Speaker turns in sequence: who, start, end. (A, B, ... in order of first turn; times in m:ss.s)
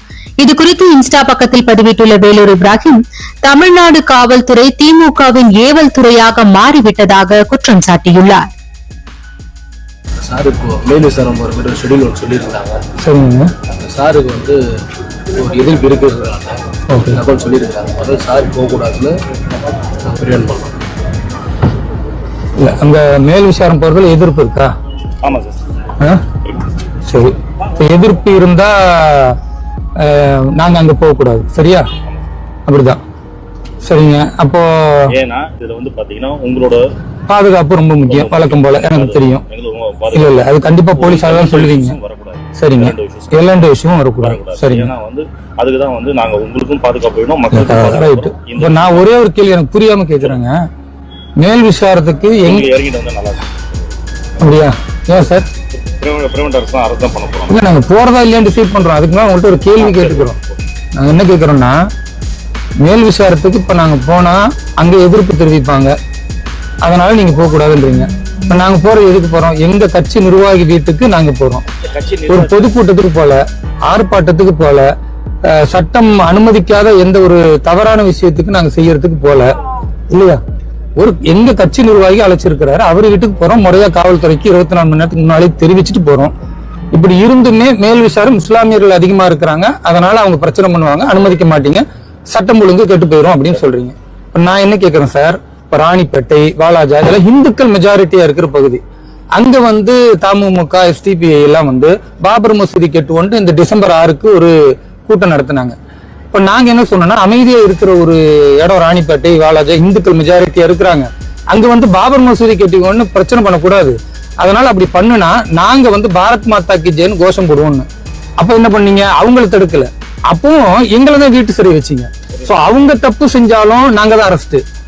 0:00.4-0:08.5 A
0:10.2-0:12.8 B
0:13.0-0:13.5 C
0:13.8-0:14.6 B
0:15.3-0:19.2 B
0:16.9-0:17.2 C
0:20.0-0:20.8 B
0:22.6-0:24.7 C
0:25.2-0:25.6 D
0:27.1-0:29.4 C
0:30.0-0:31.9 C
0:32.7-0:33.0 C
0:33.8-0:35.1 C
0:35.1-0:36.8 D
0:37.3-0:39.4 C
0:38.1-0:43.7 D
0:40.1-0:42.0 C
0:42.6-0:44.9 C
0:44.2-0:49.1 D
0:47.5-0:50.5 C
0:51.4-0:52.7 C
0:52.4-0:53.6 D
0:54.4-0:55.5 C
0:55.8-0:57.7 D
0:57.5-1:00.4 C
0:59.8-1:00.6 D
1:01.0-1:01.7 C
1:02.8-1:05.9 C
1:06.8-1:11.6 C
1:11.8-1:12.8 D
1:12.3-1:14.9 C
1:15.5-1:19.5 C
1:20.1-1:20.4 C
1:21.0-1:26.3 C
1:26.9-1:38.8 C
1:39.4-1:44.5 C
1:45.0-1:45.8 C
1:46.3-1:57.9 C
1:58.4-2:04.6 C